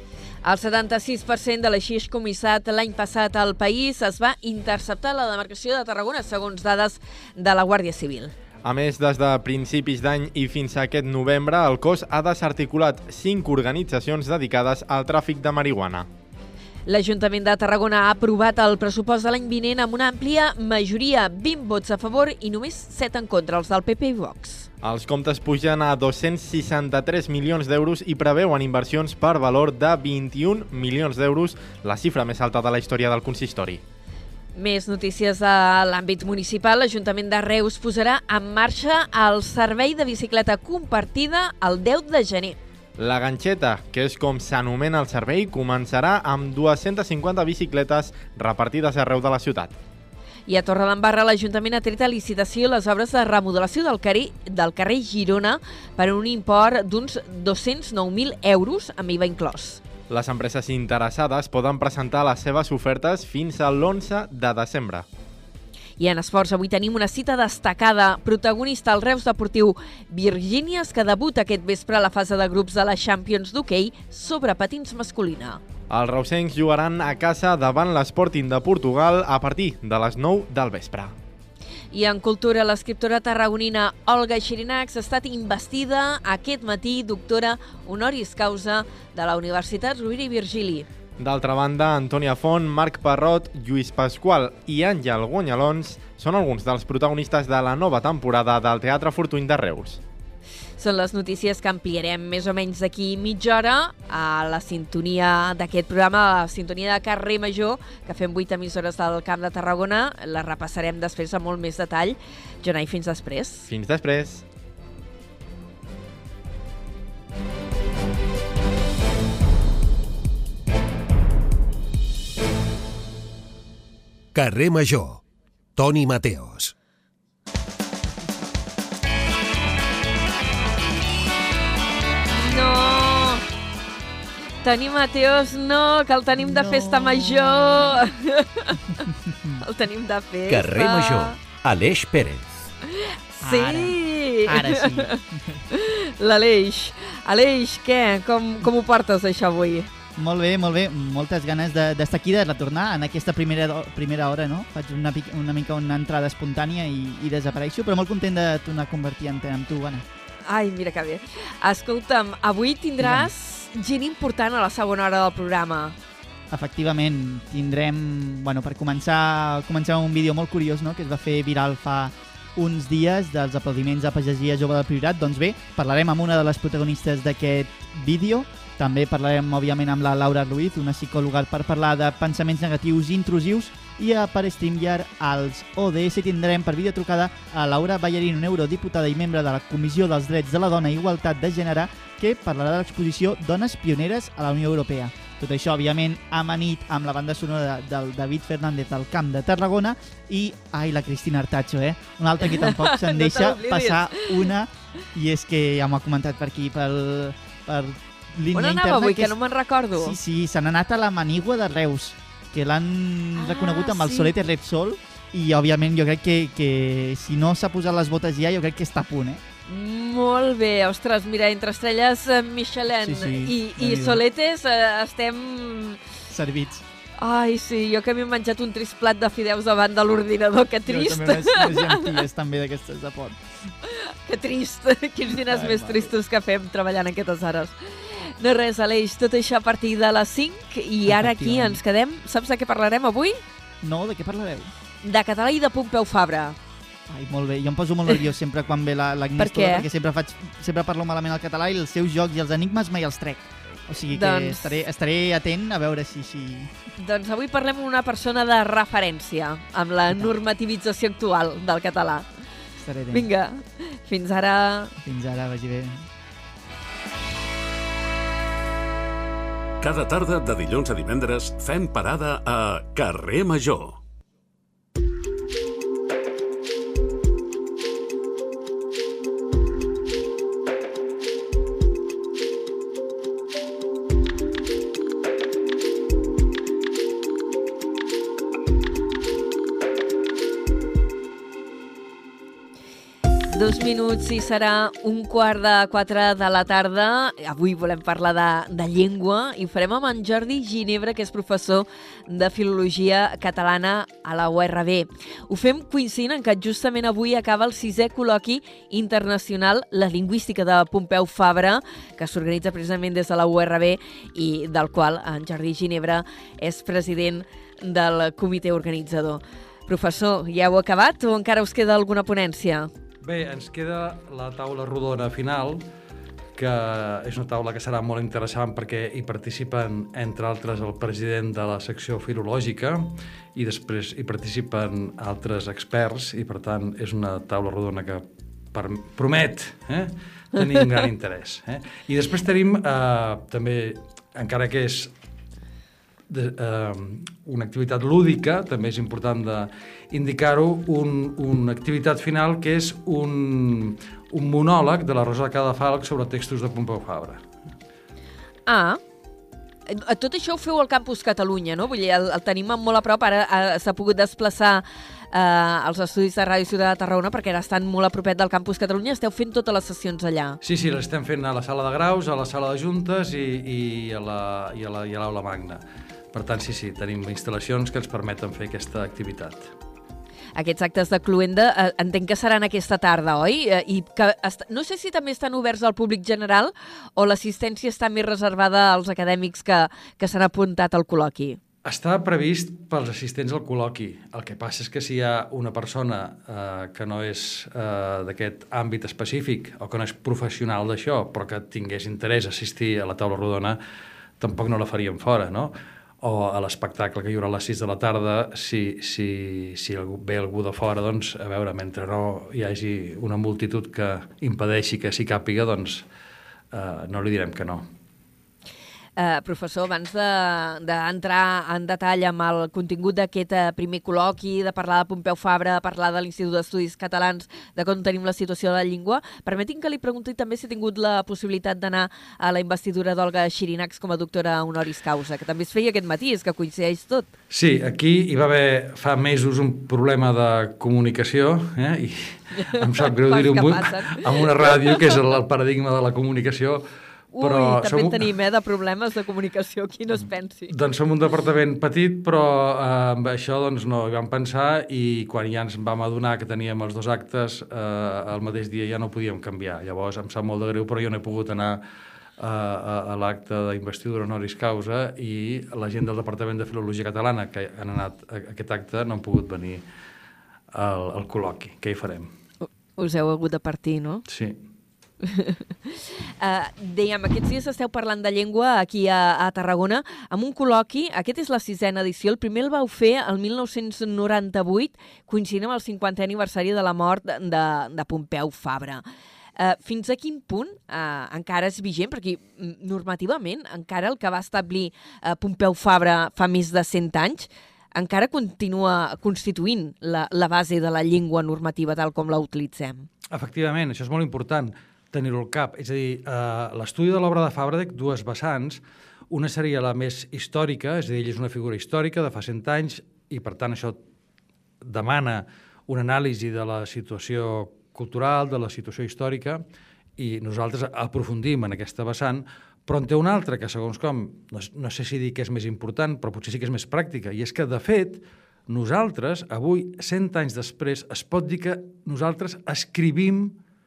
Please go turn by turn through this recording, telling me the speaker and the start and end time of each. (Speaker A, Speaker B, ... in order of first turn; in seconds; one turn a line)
Speaker A: 0.4-8.3
Speaker B: 8.6-16.1
Speaker A: 16.9-24.7
Speaker B: 24.8-33.8
Speaker A: 34.6-42.6
Speaker B: 43.0-49.8
Speaker A: 50.5-59.8
Speaker B: 60.1-65.1
Speaker A: 66.0-75.6
Speaker B: 75.9-81.1
Speaker A: 81.9-90.9
Speaker B: 91.2-100.0
Speaker A: 100.8-113.7
Speaker B: 113.7-114.5
Speaker C: 124.3-125.2
Speaker C: 125.8-126.7
Speaker A: 132.4-133.4
Speaker A: 134.6-138.8
Speaker D: 136.4-138.0
Speaker D: 139.2-139.6
Speaker A: 139.6-141.4
Speaker C: 140.5-142.7
Speaker A: 143.0-149.9
Speaker D: 143.4-145.6
Speaker D: 150.2-160.1
Speaker A: 160.5-166.0
Speaker D: 163.0-163.3
Speaker D: 166.5-209.4
Speaker A: 202.5-204.5
Speaker A: 208.5-210.2
Speaker D: 209.9-219.4
Speaker A: 213.4-214.3
Speaker A: 219.7-226.0
Speaker D: 223.0-224.2
Speaker D: 226.3-226.8
Speaker A: 227.2-232.2
Speaker D: 230.9-233.4
Speaker A: 233.9-243.4
Speaker D: 235.3-236.1
Speaker D: 241.1-241.8
Speaker D: 243.8-244.7
Speaker A: 245.0-246.6
Speaker D: 247.1-256.7
Speaker A: 249.4-249.9
Speaker A: 254.1-254.8
Speaker A: 257.0-262.3
Speaker D: 262.8-263.3
Speaker A: 263.1-264.9
Speaker D: 265.0-266.1
Speaker E: 269.8-274.0
Speaker A: 293.5-322.9
Speaker F: 323.2-325.9
Speaker F: 326.6-345.1
Speaker F: 346.3-357.4
Speaker A: 358.7-359.0
Speaker A: 359.9-370.6
Speaker F: 370.6-375.8
Speaker F: 376.3-379.7
Speaker A: 380.6-391.6
Speaker F: 391.9-403.8
Speaker F: 404.4-416.1
Speaker F: 416.7-417.9
Speaker A: 419.2-437.3
Speaker F: 437.5-446.8
Speaker A: 442.6-445.1
Speaker A: 447.3-450.7
Speaker F: 447.4-448.3
Speaker F: 450.7-461.8
Speaker F: 462.4-469.8
Speaker F: 470.7-472.3
Speaker A: 473.0-474.2
Speaker F: 474.3-474.6
Speaker A: 475.2-489.0
Speaker A: 489.6-503.1
Speaker F: 503.3-514.0
Speaker F: 514.8-519.6
Speaker F: 520.2-533.6